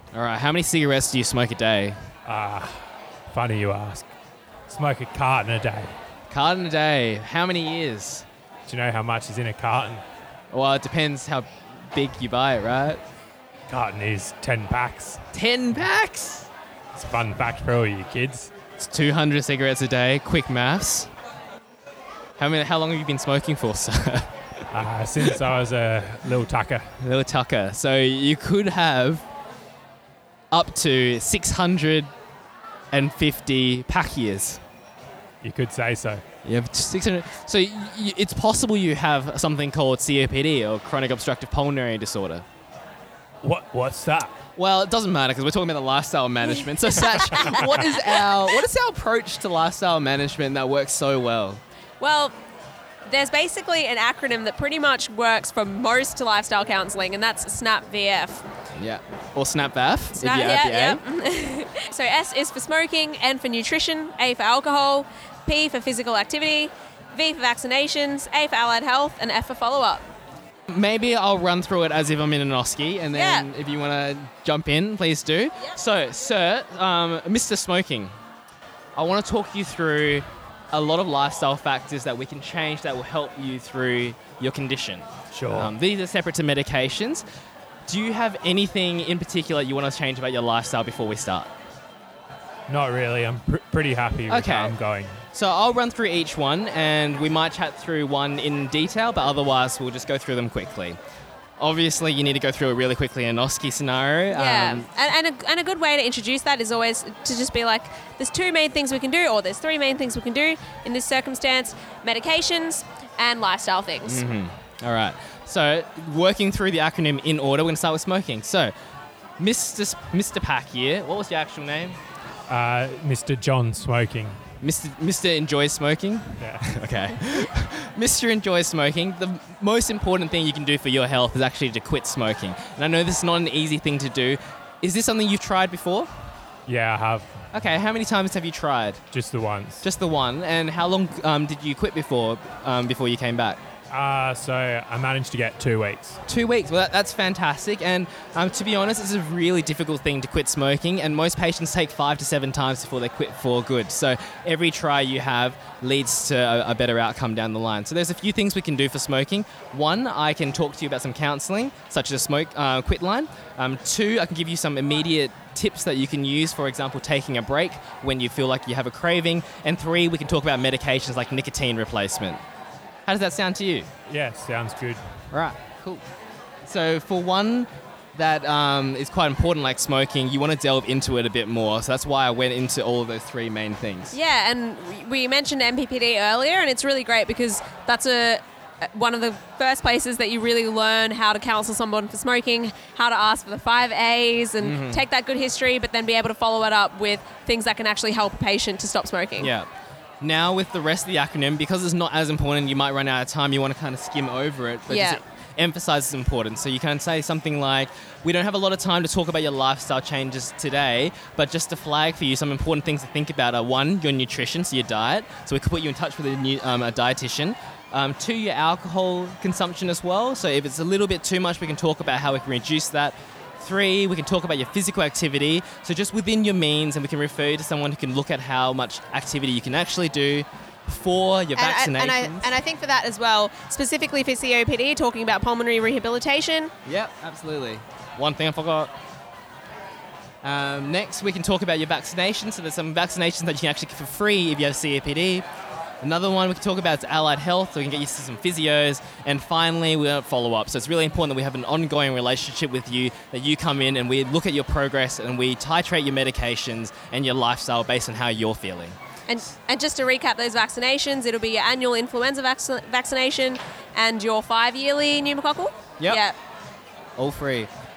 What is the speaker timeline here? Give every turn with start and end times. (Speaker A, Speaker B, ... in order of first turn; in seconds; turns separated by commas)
Speaker A: 0.1-2.0, Speaker B: 2.2-4.1, Speaker B: 4.7-6.0, Speaker A: 6.3-8.3, Speaker B: 8.7-10.0, Speaker A: 10.5-13.0, Speaker B: 13.7-15.3, Speaker A: 15.3-16.5, Speaker B: 16.9-18.5, Speaker A: 18.8-21.1, Speaker A: 22.4-24.3, Speaker B: 24.7-27.0, Speaker A: 27.0-29.2, Speaker A: 30.5-32.1, Speaker A: 32.9-34.6, Speaker B: 35.4-36.2, Speaker A: 36.5-42.5, Speaker B: 43.4-44.4, Speaker A: 44.6-51.6, Speaker C: 52.0-52.3, Speaker C: 53.1-58.4, Speaker A: 58.8-61.0, Speaker C: 60.2-70.0, Speaker A: 70.7-78.1, Speaker C: 73.1-73.5, Speaker A: 79.0-87.2, Speaker B: 85.3-85.7, Speaker A: 87.9-91.5, Speaker B: 92.7-95.2, Speaker A: 94.3-94.8, Speaker A: 95.3-101.0, Speaker A: 101.6-104.9, Speaker C: 104.3-114.2, Speaker A: 114.1-118.7, Speaker A: 119.4-122.0, Speaker B: 122.5-124.4, Speaker A: 124.6-136.1, Speaker B: 126.4-126.8, Speaker B: 136.7-137.4, Speaker A: 137.5-139.0, Speaker B: 139.1-139.8, Speaker A: 139.8-143.6, Speaker B: 143.9-146.2, Speaker A: 146.3-172.4, Speaker A: 173.1-173.9, Speaker B: 174.1-175.0, Speaker A: 175.3-176.0, Speaker A: 176.6-184.2, Speaker C: 184.1-199.5, Speaker A: 194.6-195.0, Speaker A: 199.4-199.7, Speaker A: 200.2-232.5, Speaker C: 204.9-205.2, Speaker C: 231.6-236.7, Speaker A: 236.9-238.9, Speaker A: 240.4-245.4, Speaker A: 246.0-259.0, Speaker C: 259.3-266.4, Speaker A: 267.2-267.7